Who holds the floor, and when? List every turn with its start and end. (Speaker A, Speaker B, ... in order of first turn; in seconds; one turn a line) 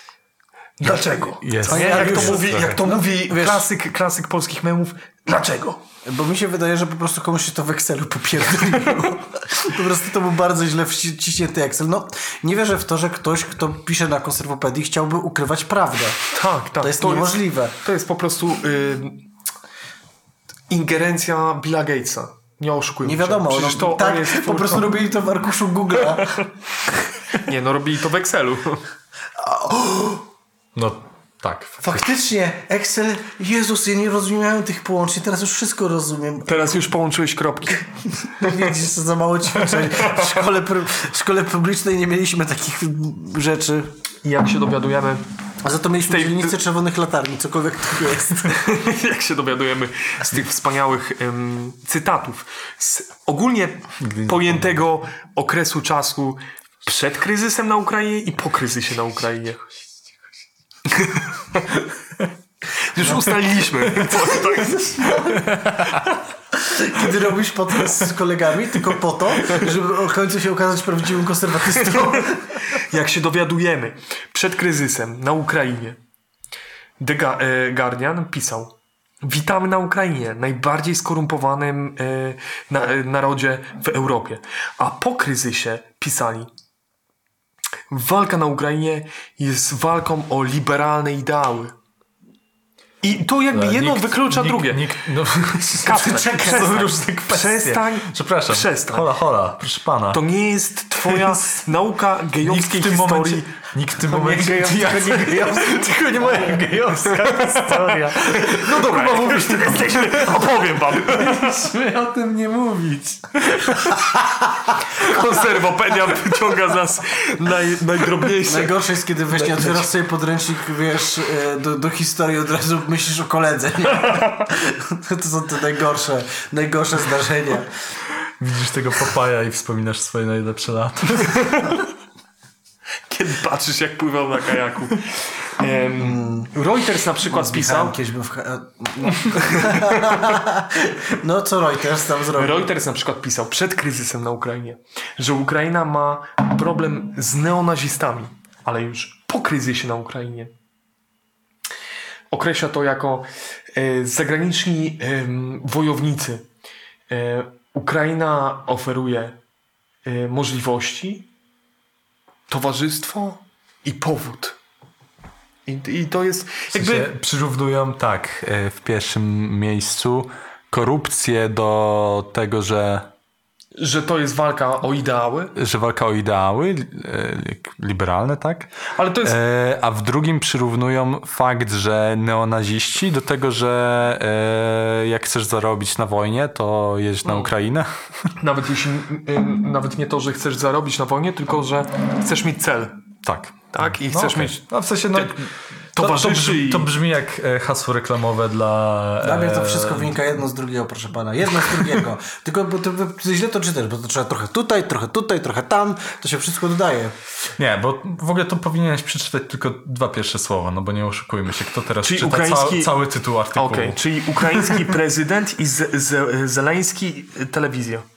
Speaker A: 0.8-5.8
Speaker B: 0.8-2.8
Speaker C: 0.8-3.6
Speaker C: 6.0-16.2
Speaker A: 16.3-19.2
Speaker C: 16.8-17.8
Speaker A: 20.7-25.0
Speaker C: 23.0-26.4
Speaker A: 26.1-26.4
Speaker A: 27.3-28.8
Speaker C: 29.4-30.2
Speaker B: 30.7-32.1
Speaker C: 31.8-36.7
Speaker A: 36.5-38.7
Speaker C: 38.3-43.9
Speaker A: 39.7-40.5
Speaker A: 44.2-45.2
Speaker C: 45.6-48.6
Speaker A: 46.0-46.5
Speaker A: 48.4-59.7
Speaker B: 54.0-54.7
Speaker A: 60.9-61.8
Speaker A: 62.8-66.1
Speaker C: 65.0-65.4
Speaker C: 66.6-72.5
Speaker A: 71.7-76.0
Speaker A: 77.0-78.7
Speaker A: 79.2-86.5
Speaker A: 87.9-91.7
Speaker A: 93.0-95.0
Speaker B: 93.5-100.2
Speaker A: 95.6-99.1
Speaker A: 100.1-105.7
Speaker B: 101.1-101.4
Speaker B: 102.4-110.5
Speaker C: 105.3-109.6
Speaker A: 107.1-111.7
Speaker B: 111.0-114.0
Speaker A: 113.6-114.0
Speaker A: 114.9-119.8
Speaker C: 118.4-127.7
Speaker B: 128.4-131.8
Speaker A: 131.3-131.7
Speaker A: 133.1-138.0
Speaker C: 136.0-136.5
Speaker C: 137.3-142.7
Speaker A: 139.3-140.4
Speaker A: 142.3-150.5
Speaker A: 152.3-156.4
Speaker A: 157.1-159.4
Speaker A: 160.1-161.3
Speaker A: 162.5-164.6
Speaker A: 165.7-167.1
Speaker B: 166.7-173.1
Speaker A: 173.8-175.5
Speaker B: 175.6-188.3
Speaker A: 178.9-179.4
Speaker A: 187.2-187.5
Speaker A: 188.4-193.1
Speaker B: 193.2-200.1
Speaker A: 193.7-196.9
Speaker C: 199.2-207.1
Speaker B: 201.6-202.0
Speaker B: 207.6-214.7
Speaker A: 212.0-213.0
Speaker A: 213.5-218.1